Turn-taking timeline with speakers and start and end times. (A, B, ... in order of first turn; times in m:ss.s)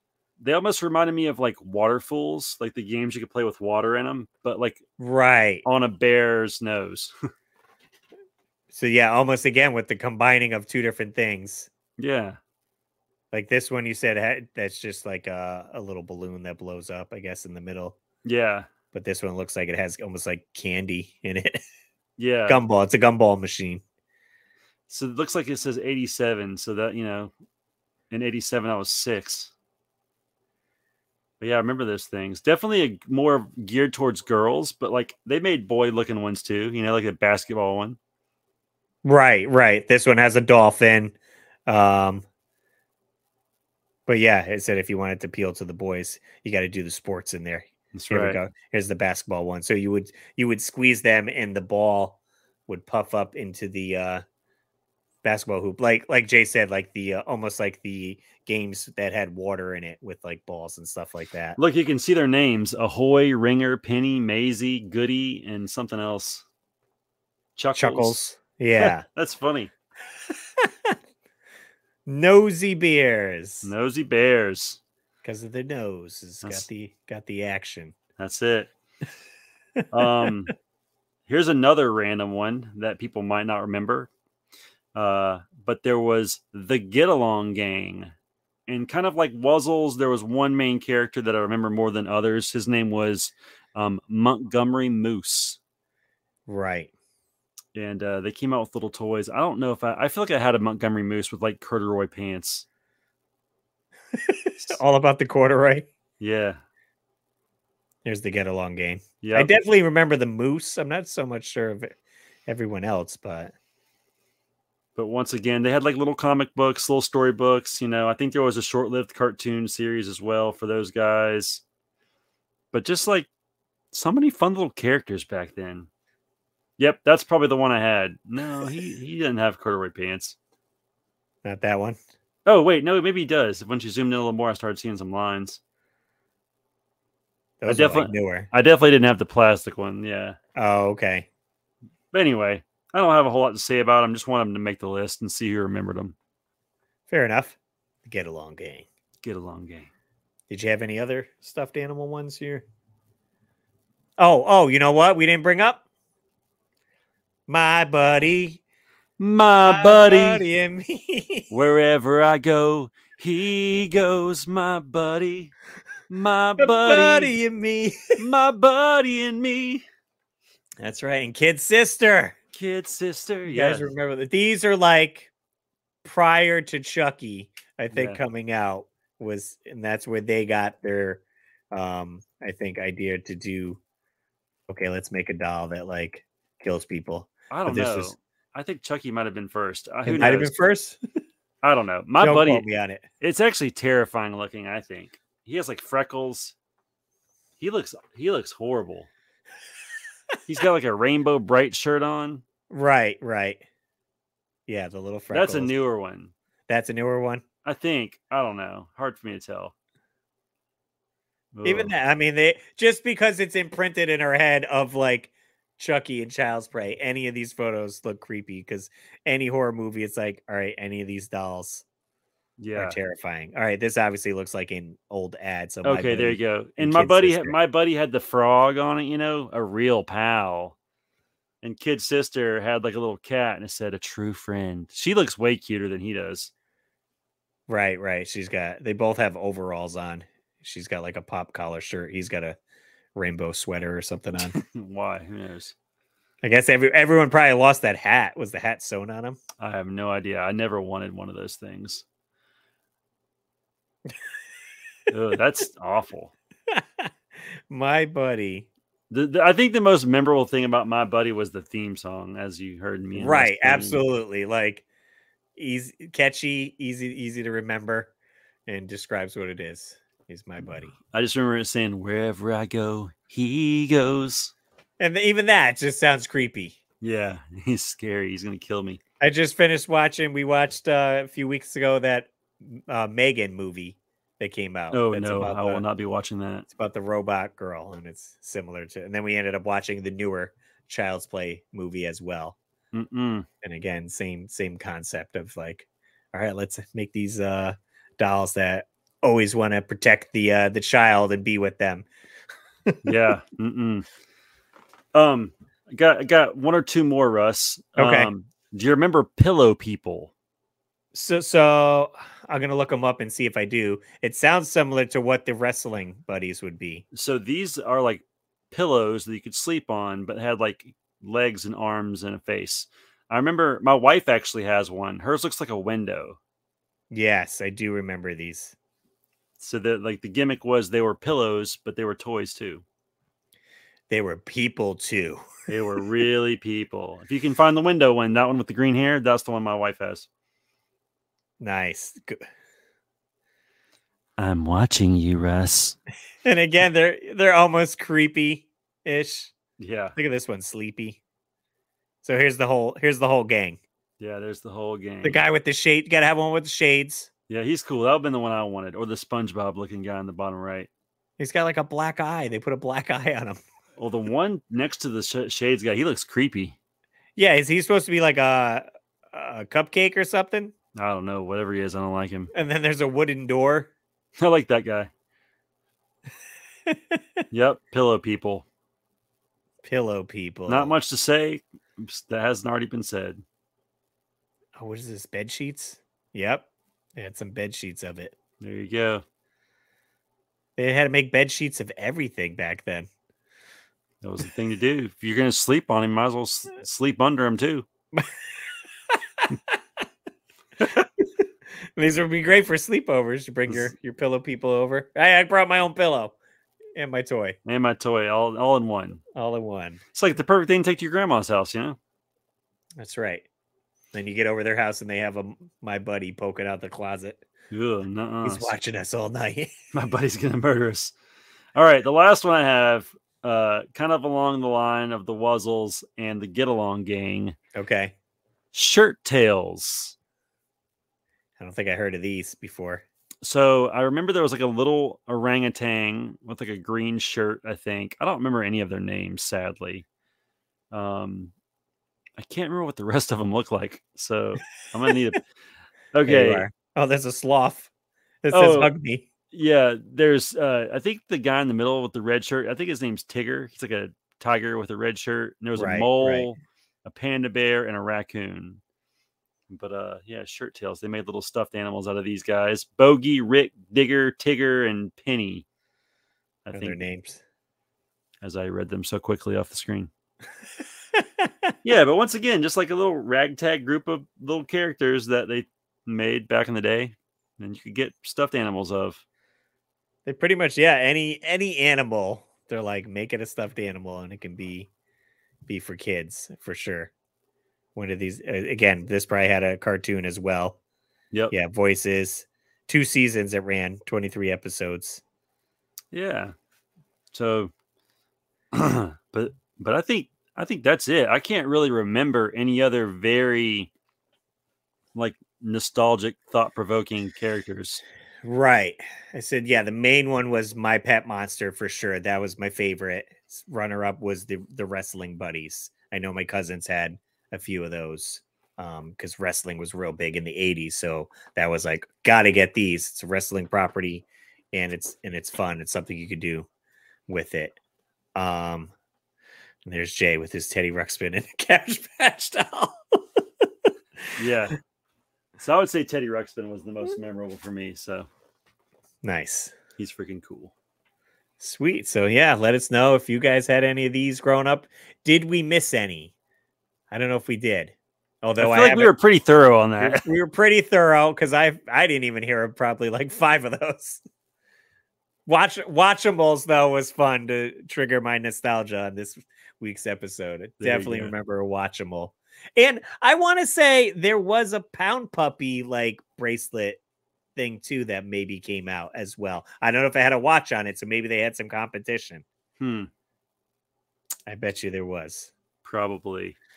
0:00.4-0:04.8 A
0:05.0-0:05.6 B
0:05.6-0:07.1 A
0:08.7-0:11.7 B
0:12.0-0:12.4 A
0:13.3-0:18.0 B
0:18.2-0:18.7 A
0:18.9-0:21.6 B
0:22.2-0:22.6 A
0:22.5-0:23.8 B
0:24.9-0:27.3 A
0:28.1-0:29.5 A
0:31.4-0:38.0 A
0:39.0-0:41.2 B
0:41.7-0:42.2 B
0:44.1-0:54.2 B
0:47.9-0:48.4 A
0:55.2-1:01.6 B
1:01.6-1:06.4 A
1:07.6-1:08.2 A
1:07.8-1:09.0 B
1:08.8-1:09.7 A
1:10.6-1:11.0 B
1:12.1-1:13.7 B
1:13.6-1:14.8 A
1:15.2-1:18.0 B
1:18.2-1:18.7 A
1:19.8-1:20.3 B
1:19.9-1:20.5 A
1:21.3-1:24.1 A
1:25.0-1:28.1 A
1:28.7-1:35.6 A
1:36.5-1:36.9 B
1:37.8-1:42.7 A
1:44.1-1:45.9 B
1:46.2-1:46.6 A
1:48.0-1:53.5 B
1:49.2-1:49.5 A
1:55.0-2:01.6 A
2:02.7-2:03.3 A
2:03.9-2:05.9 A
2:06.8-2:10.4 A
2:11.4-2:12.0 B
2:12.5-2:15.6 A
2:17.6-2:18.5 B
2:17.7-2:20.4 A
2:20.6-2:21.3 B
2:22.1-2:26.2 A
2:27.1-2:28.9 B
2:29.2-2:29.9 A
2:30.5-2:32.6 B
2:34.2-2:35.8 B
2:37.5-2:38.6 B
2:39.2-2:40.4 A
2:39.6-2:41.5 B
2:41.5-2:45.5 A
2:46.1-2:47.4 A
2:46.6-2:48.2 B
2:48.2-2:49.8 A
2:50.8-2:52.4 B
2:52.5-2:53.9 A
2:53.5-2:55.3 B
2:56.0-3:03.8 B
2:57.9-2:58.2 A
3:04.7-3:08.1 B
3:07.5-3:10.5 A
3:10.0-3:11.0 B
3:11.6-3:12.6 A
3:12.2-3:13.1 B
3:13.2-3:16.5 A
3:17.6-3:19.1 A
3:20.5-3:22.4 A
3:22.7-3:23.6 B
3:24.7-3:25.7 B
3:25.3-3:26.3 A
3:26.7-3:27.4 B
3:27.6-3:29.7 A
3:31.5-3:32.0 A
3:31.6-3:41.8 B
3:42.6-3:43.0 A
3:42.7-3:47.6 B
3:45.8-3:50.8 A
3:51.6-3:56.5 A
3:57.7-4:02.6 B
4:03.2-4:04.6 B
4:04.4-4:05.7 A
4:06.4-4:09.4 B
4:09.6-4:12.0 A
4:15.1-4:16.3 A
4:16.7-4:17.1 B
4:17.7-4:18.7 B
4:19.1-4:24.0 A
4:23.2-4:24.8 B
4:25.6-4:28.1 B
4:28.7-4:31.0 B
4:31.1-4:34.5 A
4:35.0-4:36.8 B
4:37.0-4:39.0 A
4:39.2-4:45.9 B
4:44.9-4:46.7 A
4:46.7-4:52.6 B
4:52.9-4:53.5 A
4:53.6-5:02.1 B
5:03.0-5:04.1 A
5:05.1-5:10.3 A
5:08.0-5:08.3 B
5:11.1-5:17.0 B
5:17.1-5:26.4 A
5:27.1-5:28.8 B
5:29.6-5:32.8 A
5:34.1-5:35.5 B
5:35.7-5:40.3 A
5:41.6-5:42.4 B
5:44.4-5:46.0 A
5:46.4-5:49.5 B
5:49.8-5:50.2 A
5:50.2-5:51.2 B
5:52.2-5:53.8 B
5:54.2-5:55.4 A
5:55.2-5:57.3 B
5:57.5-6:00.9 A
6:01.4-6:03.6 B
6:04.0-6:06.8 A
6:07.4-6:10.7 B
6:11.0-6:12.5 A
6:12.5-6:13.9 B
6:14.4-6:15.1 A
6:16.9-6:17.2 B
6:17.5-6:18.6 A
6:19.8-6:20.9 B
6:20.7-6:23.4 A
6:24.8-6:28.4 B
6:28.6-6:29.2 A
6:30.8-6:33.1 B
6:34.2-6:37.9 A
6:39.1-6:39.8 B
6:40.8-6:41.3 B
6:42.0-6:46.4 B
6:47.0-6:47.6 B
6:47.7-6:49.2 A
6:49.3-6:50.0 B
6:50.1-6:52.0 A
6:53.0-6:53.4 B
6:54.1-6:57.4 B
6:57.7-6:58.7 A
6:58.4-6:59.8 B
6:59.9-7:01.1 A
7:01.8-7:07.6 A
7:07.7-7:08.1 B
7:08.7-7:10.2 A
7:11.6-7:13.0 B
7:13.4-7:20.1 A
7:20.9-7:21.5 A
7:22.4-7:25.4 A
7:26.1-7:26.7 A
7:26.2-7:27.9 B
7:28.4-7:29.3 B
7:28.5-7:28.9 A
7:29.5-7:38.8 A
7:35.8-7:36.5 B
7:39.7-7:45.6 A
7:46.7-7:47.0 A
7:46.7-7:47.4 B
7:48.4-7:50.1 A
7:51.1-7:51.7 B
7:51.8-7:59.2 A
8:00.2-8:04.9 B
8:05.7-8:07.1 B
8:08.0-8:10.8 B
8:11.5-8:15.2 B
8:16.1-8:16.5 A
8:17.3-8:17.7 A
8:18.7-8:23.9 A
8:25.2-8:28.0 A
8:28.4-8:46.7 B
8:47.3-8:47.8 B
8:48.4-8:48.9 B
8:49.8-8:53.9 B
8:54.4-8:54.8 A
8:55.6-8:58.3 A
8:59.2-8:59.7 B
9:00.0-9:00.7 A
9:01.6-9:06.3 B
9:07.1-9:09.1 B
9:08.6-9:10.3 A
9:10.0-9:14.2 B
9:15.5-9:27.0 B
9:20.8-9:21.3 A
9:27.6-9:32.4 B
9:32.8-9:33.1 A
9:34.5-9:35.5 B
9:35.8-9:36.6 A